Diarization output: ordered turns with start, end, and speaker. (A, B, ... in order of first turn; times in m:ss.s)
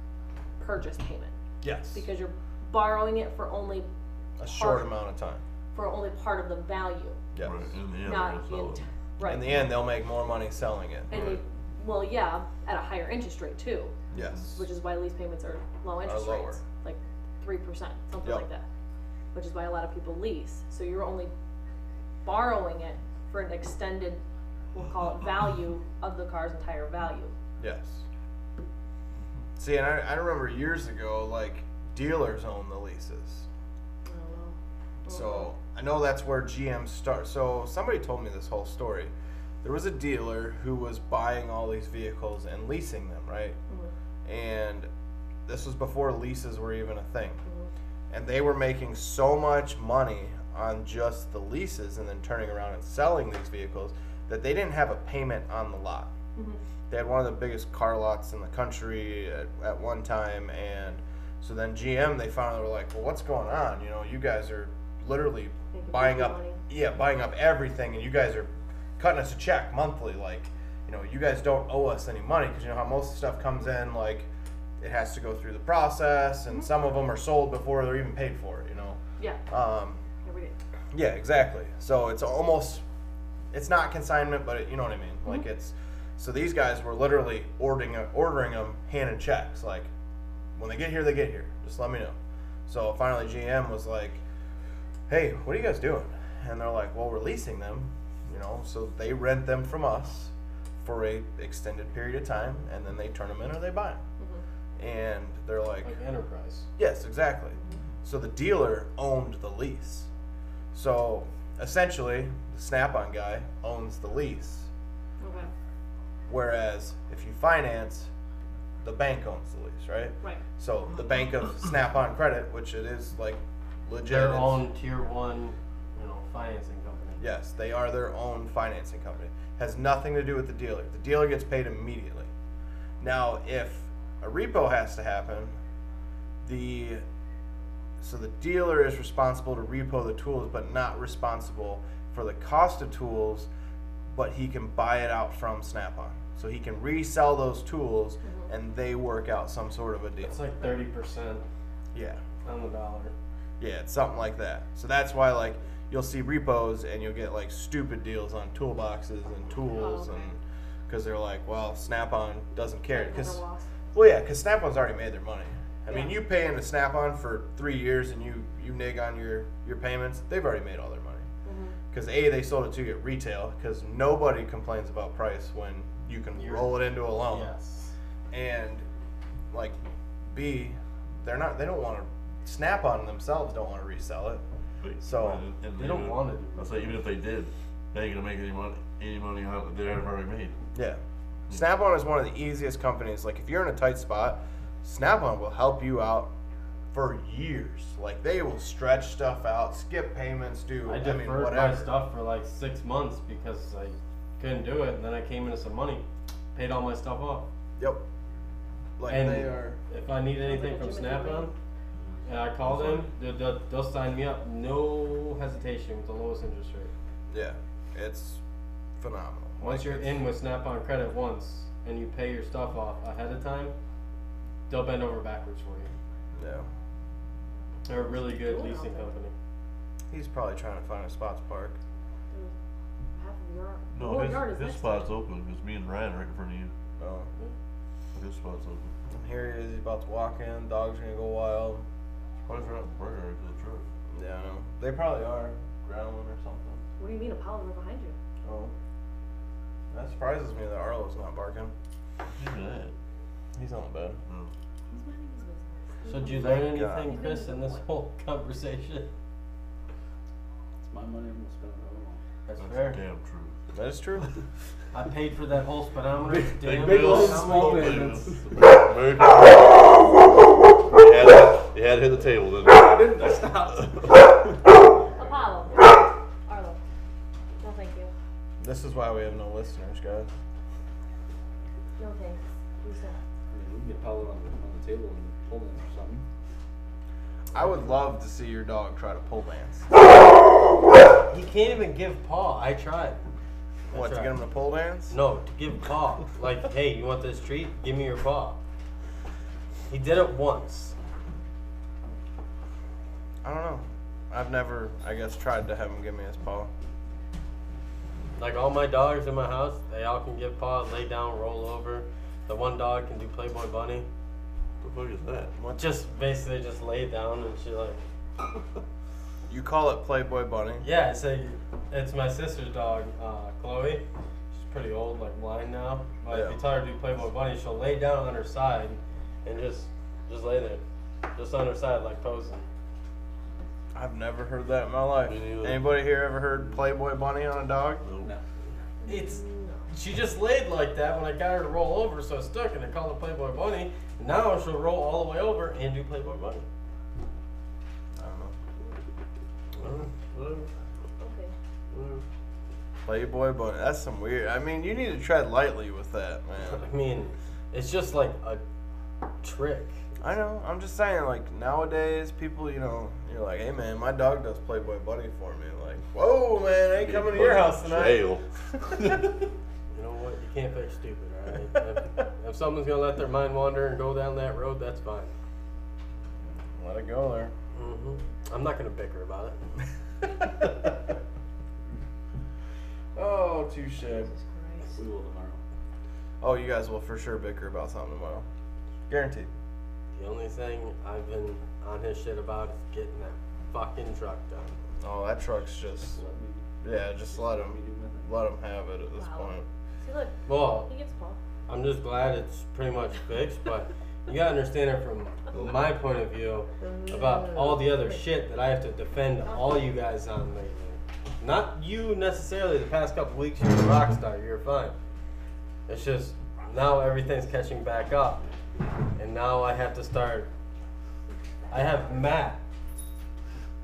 0:00.6-0:01.3 A
0:01.6-0:02.0 B
0:01.9-0:03.9 A
0:04.4-0:05.4 B
0:04.5-0:04.9 A
0:05.7-0:07.2 A
0:07.3-0:07.7 B
0:07.4-0:08.8 C
0:08.0-0:09.6 A
0:09.2-0:11.3 B
0:09.5-0:09.7 C
0:11.1-0:14.0 A
0:11.1-0:11.4 C
0:14.1-0:14.6 B
0:14.2-0:14.4 C
0:14.5-0:18.7 A
0:16.0-0:16.6 B
0:19.3-0:21.3 A
0:22.2-0:24.2 A
0:24.7-0:27.3 A
0:27.6-0:28.0 B
0:29.6-0:33.5 B
0:34.1-0:35.5 A
0:35.1-0:39.1 B
0:39.6-0:43.6 B
0:44.3-0:44.9 B
0:45.5-0:47.4 B
0:47.5-0:47.7 A
0:48.1-0:56.1 B
0:56.9-1:14.3 B
1:05.7-1:06.6 A
1:14.8-1:20.0 B
1:20.2-1:20.6 A
1:20.9-1:22.8 B
1:23.5-1:29.9 B
1:30.6-1:32.2 B
1:32.7-1:34.2 B
1:35.1-1:44.0 B
1:44.8-1:46.0 B
1:45.8-1:46.7 D
1:46.8-1:50.1 B
1:50.7-1:54.7 B
1:55.2-1:55.5 A
1:56.3-1:58.1 B
1:58.8-2:04.6 B
2:04.1-2:07.2 D
2:07.2-2:12.3 B
2:13.0-2:15.6 B
2:16.4-2:17.0 B
2:18.0-2:23.5 B
2:24.1-2:30.4 B
2:28.2-2:28.5 A
2:30.2-2:31.5 D
2:31.9-2:32.2 B
2:32.4-2:33.1 D
2:33.6-2:43.4 B
2:39.7-2:40.3 A
2:42.9-2:43.7 A
2:43.9-2:51.2 B
2:45.9-2:46.2 A
2:51.4-2:51.8 A
2:51.9-2:57.5 B
2:56.4-2:57.9 D
2:58.3-2:58.8 B
2:59.5-2:59.8 B
3:00.3-3:04.4 B
3:04.8-3:10.6 C
3:05.0-3:05.4 B
3:05.8-3:07.0 D
3:10.7-3:16.3 B
3:16.9-3:21.9 B
3:20.9-3:27.5 D
3:27.8-3:28.0 B
3:29.0-3:29.8 B
3:29.1-3:31.5 D
3:30.4-3:31.5 A
3:32.2-3:36.9 D
3:32.6-3:33.1 C
3:37.3-3:38.4 B
3:39.0-3:40.2 B
3:39.6-3:43.7 D
3:44.7-3:45.9 D
3:46.4-3:46.7 B
3:47.9-3:49.3 D
3:47.9-3:49.1 A
3:50.1-3:51.8 B
3:53.2-3:55.1 A
3:54.0-3:56.7 C
3:57.0-3:57.3 B
3:58.1-3:58.9 C
3:59.1-4:01.8 B
4:02.5-4:03.9 C
4:04.1-4:06.8 B
4:07.0-4:08.2 A
4:08.4-4:08.7 B
4:09.9-4:11.7 B
4:12.3-4:12.9 C
4:13.6-4:14.2 B
4:14.3-4:14.5 C
4:14.9-4:17.8 A
4:16.1-4:19.1 D
4:16.3-4:17.1 B
4:20.8-4:22.2 E
4:22.5-4:23.0 D
4:22.6-4:23.6 C
4:23.7-4:24.3 B
4:24.9-4:28.2 D
4:26.6-4:30.1 C
4:26.7-4:28.5 E
4:30.9-4:34.3 C
4:32.7-4:34.3 E
4:35.0-4:35.5 E
4:35.2-4:36.8 A
4:37.6-4:38.1 A
4:38.6-4:40.3 B
4:42.0-4:43.2 A
4:43.5-4:46.2 E
4:47.5-4:49.9 B
4:51.3-4:53.2 D
4:53.9-4:54.4 D
4:53.9-4:55.2 B
4:55.1-4:58.6 D
4:59.9-5:01.0 D
5:03.4-5:06.7 B
5:08.4-5:14.1 D
5:14.8-5:15.5 C
5:15.6-5:15.9 B
5:15.7-5:18.0 D
5:19.5-5:20.9 B
5:20.8-5:30.8 D
5:26.3-5:26.6 B
5:31.4-5:32.7 D
5:33.9-5:38.0 B
5:35.2-5:35.9 C
5:38.0-5:38.3 C
5:39.0-5:39.9 A
5:39.0-5:46.7 D
5:48.2-5:48.6 B
5:49.8-5:50.7 C
5:51.2-5:51.5 A
5:51.9-5:52.2 C
5:53.0-5:56.8 B
5:56.6-5:58.6 D
5:59.4-6:00.0 D
6:00.2-6:08.2 B
6:07.0-6:09.5 C
6:09.9-6:15.3 D
6:16.8-6:17.5 B
6:17.8-6:19.6 D
6:23.2-6:24.3 B
6:24.0-6:25.0 A
6:25.0-6:25.6 E
6:26.4-6:28.4 B
6:29.1-6:29.5 B
6:30.2-6:34.8 D
6:35.0-6:36.2 B
6:36.1-6:36.7 E
6:36.8-6:39.7 B
6:37.3-6:38.3 E
6:39.2-6:41.4 A
6:40.5-6:40.9 D
6:41.7-6:55.0 D
6:45.5-6:45.8 C
6:46.8-6:48.2 A
6:49.4-6:49.8 A
6:55.9-6:58.4 D
6:59.2-7:00.5 D
7:01.7-7:02.6 D